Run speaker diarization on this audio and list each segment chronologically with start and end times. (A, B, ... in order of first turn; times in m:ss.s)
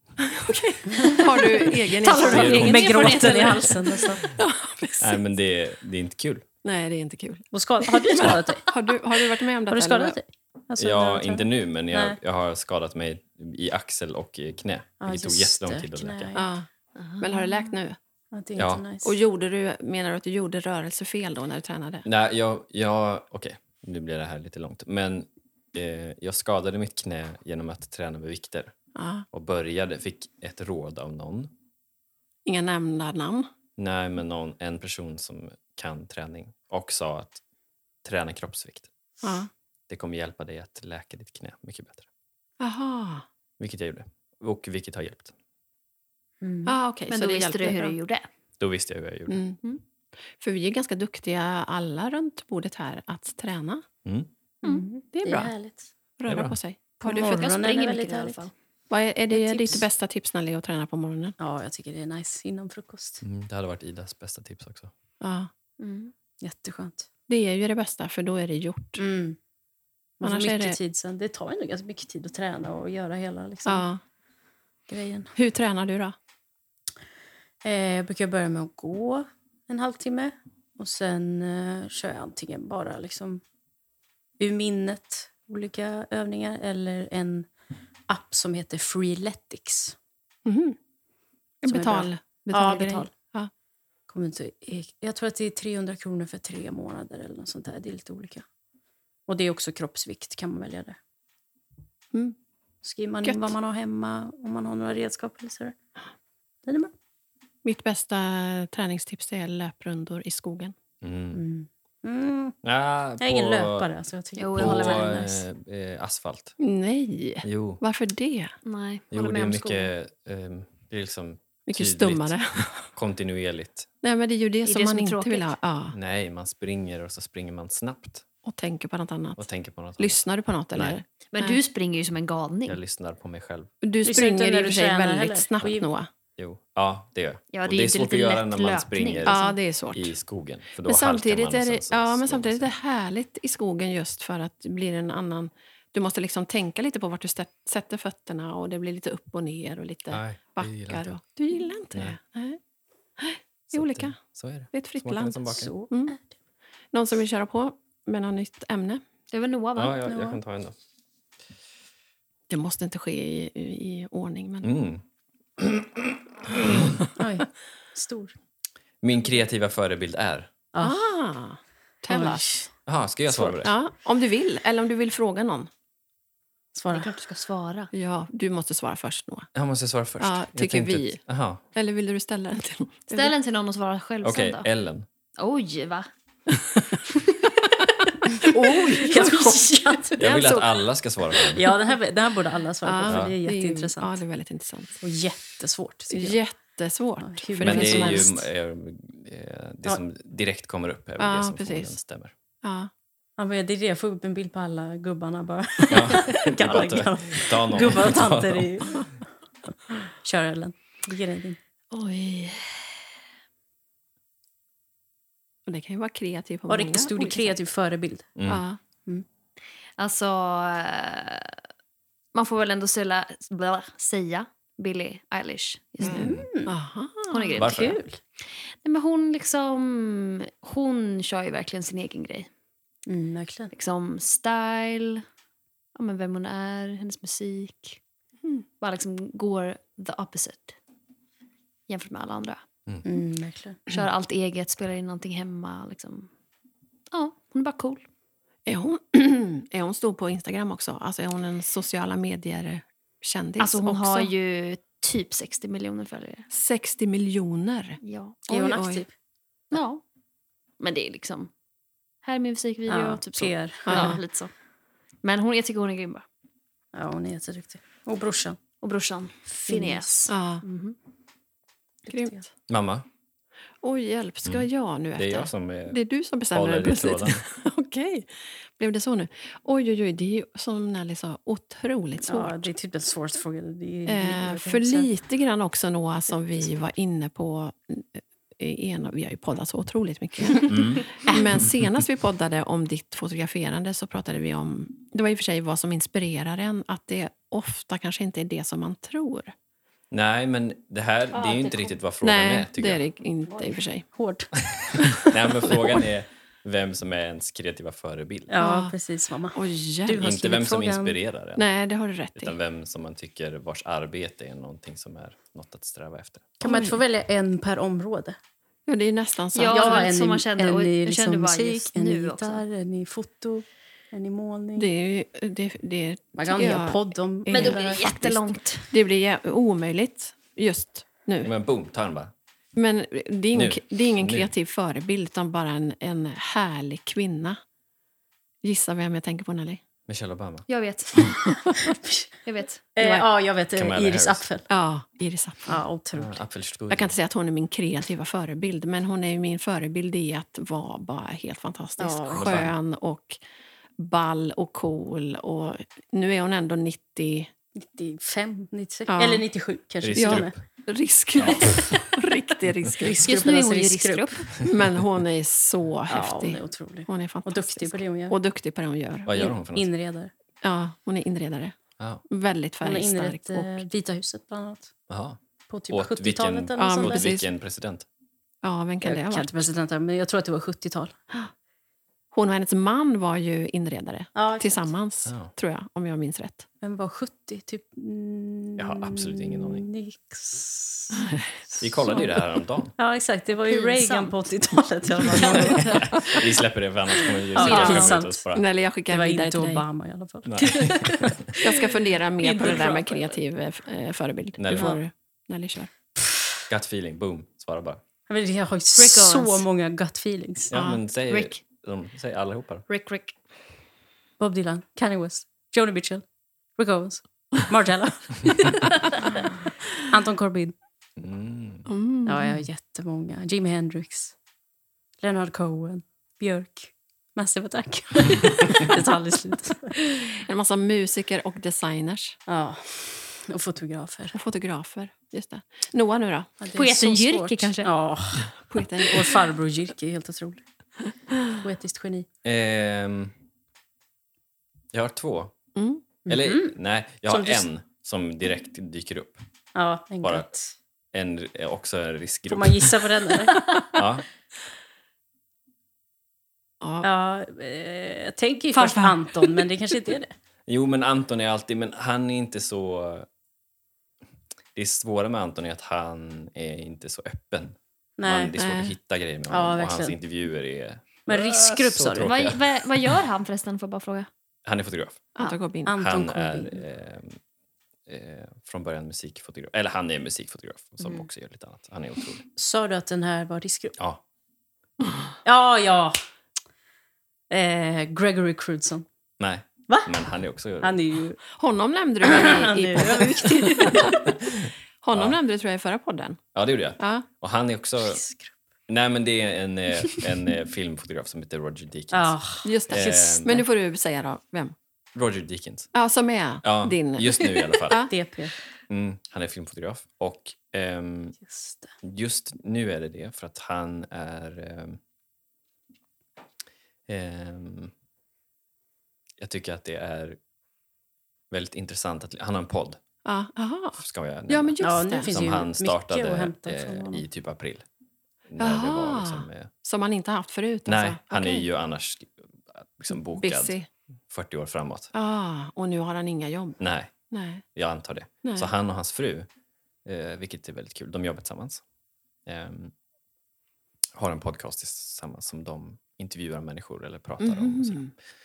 0:00.2-0:02.9 A
0:02.0-0:04.1 B
0:02.0-0:04.2 C
0:02.2-0:03.5 D
0:04.3-0:05.2 A
0:05.0-0:06.4 D
0:06.6-0:10.2 A
0:07.5-0:12.2 C
0:08.2-0:08.5 D
0:10.8-0:16.3 D
0:15.0-0:16.5 C
0:16.3-0:16.7 A
0:17.0-0:17.5 B
0:17.2-0:18.0 A
0:18.3-0:19.1 C
0:18.6-0:18.8 D
0:19.0-0:22.0 A
0:22.0-0:28.7 D
0:28.9-0:29.2 A
0:29.3-0:31.5 D
0:32.4-0:33.5 A
0:33.8-0:37.4 D
0:38.0-0:38.9 D
0:39.2-0:39.5 A
0:39.9-0:42.1 D
0:42.6-0:43.2 A
0:43.6-0:45.3 D
0:46.4-0:46.7 C
0:46.6-0:47.9 A
0:47.1-0:48.2 B
0:48.6-0:49.4 D
0:49.3-0:49.6 A
0:50.4-0:53.8 A
0:54.0-0:54.3 D
0:54.6-0:55.9 C
0:55.1-0:55.5 A
0:56.2-0:57.5 A
0:56.3-0:56.6 D
0:57.0-0:58.4 C
0:57.3-0:58.5 B
0:58.9-1:01.4 A
0:59.3-0:59.8 C
1:01.4-1:03.2 C
1:03.2-1:04.9 D
1:05.2-1:05.5 A
1:05.8-1:06.1 B
1:06.4-1:07.1 C
1:07.3-1:09.0 A
1:09.0-1:09.4 C
1:10.2-1:13.9 C
1:10.2-1:10.8 A
1:13.6-1:14.0 A
1:14.9-1:15.3 C
1:15.3-1:16.1 A
1:17.6-1:23.4 C
1:24.4-1:27.5 C
1:28.1-1:30.0 C
1:30.4-1:30.8 A
1:31.6-1:33.5 A
1:31.7-1:33.1 C
1:34.1-1:38.4 C
1:39.3-1:41.0 C
1:42.8-1:45.8 C
1:43.2-1:43.5 A
1:46.6-1:46.9 C
1:47.6-1:50.7 A
1:51.0-1:51.4 D
1:51.3-1:52.6 C
1:52.6-1:53.9 D
1:53.2-1:55.2 C
1:54.4-1:55.4 B
1:54.5-1:56.5 D
1:56.6-1:58.6 A
1:57.4-1:57.8 D
1:58.6-1:59.9 B
1:59.1-2:03.9 D
2:01.7-2:02.9 A
2:04.0-2:06.0 A
2:04.6-2:05.5 B
2:05.9-2:08.2 D
2:08.4-2:09.4 A
2:09.4-2:10.2 D
2:10.0-2:11.6 A
2:10.7-2:11.0 D
2:11.3-2:12.8 B
2:12.6-2:13.7 D
2:13.8-2:16.1 A
2:14.0-2:15.9 C
2:16.4-2:19.4 D
2:17.5-2:19.6 B
2:19.2-2:20.1 A
2:19.9-2:22.7 D
2:20.8-2:32.6 A
2:30.1-2:31.2 D
2:33.2-2:34.2 A
2:33.7-2:35.7 D
2:34.7-2:36.2 A
2:35.5-2:36.2 C
2:36.9-2:39.0 A
2:39.3-2:40.0 B
2:39.8-2:40.8 D
2:40.1-2:40.4 C
2:42.5-2:44.7 A
2:44.6-2:45.0 D
2:45.6-2:47.0 D
2:47.2-2:48.3 C
2:49.0-2:50.5 D
2:50.7-2:51.0 C
2:50.8-2:52.4 A
2:52.1-2:52.7 C
2:52.8-2:53.7 D
2:53.3-2:55.7 A
2:56.7-2:57.2 C
2:56.9-2:57.9 B
2:57.9-2:59.5 A
2:59.5-3:01.6 D
3:00.2-3:01.2 A
3:01.7-3:03.3 A
3:03.1-3:04.7 B
3:04.2-3:05.1 D
3:05.4-3:06.1 B
3:07.8-3:10.0 A
3:08.4-3:10.2 C
3:10.1-3:10.7 B
3:10.2-3:11.7 D
3:11.5-3:14.2 C
3:12.8-3:15.0 A
3:13.1-3:13.3 D
3:15.0-3:16.4 C
3:16.1-3:18.4 A
3:17.2-3:18.4 C
3:17.6-3:22.3 D
3:21.2-3:22.0 A
3:22.6-3:22.9 A
3:23.4-3:29.1 C
3:25.9-3:29.0 D
3:30.2-3:31.6 C
3:31.9-3:32.8 B
3:35.7-3:37.6 A
3:36.7-3:38.3 C
3:38.4-3:38.6 D
3:38.4-3:38.8 A
3:40.0-3:41.6 B
3:42.3-3:46.4 B
3:46.0-3:46.4 D
3:46.0-3:47.6 A
3:46.2-3:46.7 C
3:47.3-3:47.9 B
3:47.6-3:48.0 D
3:47.7-3:48.2 C
3:48.8-3:52.5 B
3:53.0-3:53.7 C
3:53.7-3:55.2 B
3:55.9-3:58.0 B
3:58.8-4:00.8 B
4:01.9-4:02.6 B
4:03.0-4:03.8 C
4:03.9-4:06.3 B
4:07.1-4:08.0 B
4:08.6-4:14.3 A
4:13.6-4:16.5 B
4:16.5-4:19.0 A
4:18.0-4:18.4 B
4:18.5-4:19.1 C
4:19.7-4:20.0 B
4:20.8-4:21.5 B
4:22.2-4:24.5 B
4:22.9-4:24.2 C
4:23.8-4:24.2 A
4:25.2-4:26.2 B
4:26.9-4:28.6 C
4:28.8-4:31.0 B
4:29.6-4:30.3 C
4:30.3-4:30.6 A
4:32.1-4:32.4 A
4:32.7-4:33.0 D
4:33.8-4:42.7 A
4:34.4-4:36.0 D
4:36.5-4:37.4 D
4:42.2-4:45.1 C
4:44.0-4:59.5 A
4:50.6-4:51.7 D
5:00.1-5:03.0 D
5:02.2-5:04.1 A
5:03.6-5:04.6 C
5:05.0-5:05.9 A
5:05.1-5:08.6 D
5:08.5-5:11.2 C
5:08.6-5:08.9 A
5:09.5-5:10.2 A
5:10.2-5:11.6 D
5:11.6-5:12.6 A
5:12.4-5:16.5 D
5:16.6-5:18.4 C
5:16.6-5:17.0 A
5:18.9-5:20.1 A
5:19.5-5:22.6 B
5:19.6-5:24.9 C
5:24.8-5:28.3 A
5:26.4-5:28.4 C
5:27.5-5:28.9 B
5:28.9-5:31.5 A
5:31.4-5:32.3 D
5:32.8-5:37.6 A
5:33.5-5:34.5 D
5:38.6-5:39.8 A
5:40.1-5:40.7 D
5:40.7-5:41.6 B
5:41.7-5:42.3 C
5:42.4-5:42.8 B
5:42.9-5:44.7 C
5:43.0-5:43.3 A
5:43.7-5:44.4 D
5:44.7-5:45.8 A
5:45.7-5:46.4 C
5:46.1-5:47.1 D
5:46.9-5:53.4 A
5:52.0-5:52.7 C
5:52.3-5:52.7 D
5:54.0-5:57.5 A
5:57.8-6:00.5 C
5:59.1-5:59.4 A
6:00.0-6:00.6 D
6:00.1-6:03.2 A
6:01.4-6:01.8 D
6:03.0-6:04.4 C
6:03.2-6:04.6 B
6:04.6-6:09.5 A
6:06.1-6:08.4 C
6:09.2-6:09.9 D
6:09.3-6:10.3 C
6:10.6-6:11.7 A
6:12.3-6:13.8 A
6:12.8-6:14.9 C
6:15.1-6:15.4 D
6:15.7-6:17.3 C
6:15.9-6:18.0 D
6:16.8-6:17.5 A
6:18.6-6:19.7 A
6:19.0-6:21.1 C
6:22.3-6:26.6 A
6:24.4-6:24.9 C
6:25.2-6:25.5 D
6:26.8-6:31.3 C
6:28.8-6:29.9 D
6:31.8-6:32.9 D
6:33.0-6:36.4 C
6:33.7-6:34.3 B
6:35.2-6:36.3 B
6:35.8-6:38.6 D
6:37.5-6:38.4 C
6:37.6-6:38.2 B
6:38.5-6:39.8 A
6:39.1-6:43.4 C
6:40.4-6:41.5 D
6:41.6-6:45.9 A
6:44.6-6:45.0 D
6:44.7-6:45.0 C
6:46.7-6:48.0 D
6:48.3-6:50.7 C
6:49.0-6:49.6 B
6:50.7-6:52.8 D
6:50.7-6:51.0 A
6:51.3-6:51.6 B
6:52.9-6:53.4 B
6:54.4-6:56.2 C
6:56.8-7:00.7 C
7:01.2-7:01.9 D
7:01.9-7:02.6 A
7:02.2-7:04.3 C
7:05.2-7:10.0 C
7:10.3-7:12.4 A
7:12.5-7:14.4 C
7:14.3-7:16.5 A
7:16.6-7:20.6 C
7:16.7-7:17.9 B
7:18.7-7:19.4 A
7:21.5-7:22.3 C
7:22.4-7:23.3 D
7:24.9-7:25.5 D
7:25.7-7:26.0 A
7:26.3-7:27.6 C
7:26.3-7:29.4 D
7:29.7-7:30.7 C
7:30.2-7:30.5 D
7:31.1-7:33.0 D
7:32.5-7:33.7 C
7:33.9-7:34.2 D
7:36.8-7:37.1 A
7:37.0-7:40.3 C
7:38.7-7:39.6 A
7:40.7-7:43.3 D
7:44.7-7:53.2 D
7:48.2-7:48.5 C
7:48.6-7:48.9 A
7:49.5-7:50.2 C
7:51.2-7:52.3 C
7:52.2-7:54.3 B
7:54.6-7:55.3 D
7:55.3-7:55.9 A
7:55.8-7:56.8 C
7:55.9-7:57.4 D
7:58.1-8:02.4 D
8:01.0-8:01.3 B
8:02.6-8:04.0 C
8:05.4-8:06.2 C
8:07.5-8:09.0 C
8:09.4-8:11.0 D
8:09.9-8:10.2 C
8:10.8-8:11.4 C
8:11.6-8:14.3 A
8:12.2-8:14.2 C
8:14.6-8:15.4 D
8:15.0-8:16.4 A
8:16.5-8:18.2 D
8:17.0-8:17.2 A
8:18.0-8:18.5 C
8:18.9-8:22.4 D
8:22.1-8:22.7 C
8:22.6-8:24.7 A
8:22.9-8:23.6 D
8:25.1-8:25.9 D
8:25.9-8:28.1 A
8:26.6-8:28.1 D
8:28.1-8:28.5 C
8:28.9-8:31.4 D
8:31.4-8:31.9 C
8:32.0-8:35.0 D
8:37.1-8:37.9 D
8:39.4-8:40.4 D
8:41.5-8:43.0 D
8:43.2-8:45.3 A
8:44.0-8:47.8 D
8:44.8-8:47.2 C
8:48.5-8:49.7 D
8:48.6-8:51.7 A
8:50.9-8:53.8 D
8:53.1-8:53.9 A
8:54.3-8:55.1 D
8:55.1-8:57.6 A
8:56.8-8:57.1 D
8:57.7-8:59.5 D
8:58.4-8:58.7 A
9:00.0-9:01.8 D
9:02.4-9:02.9 D
9:04.1-9:08.1 D
9:07.4-9:08.1 A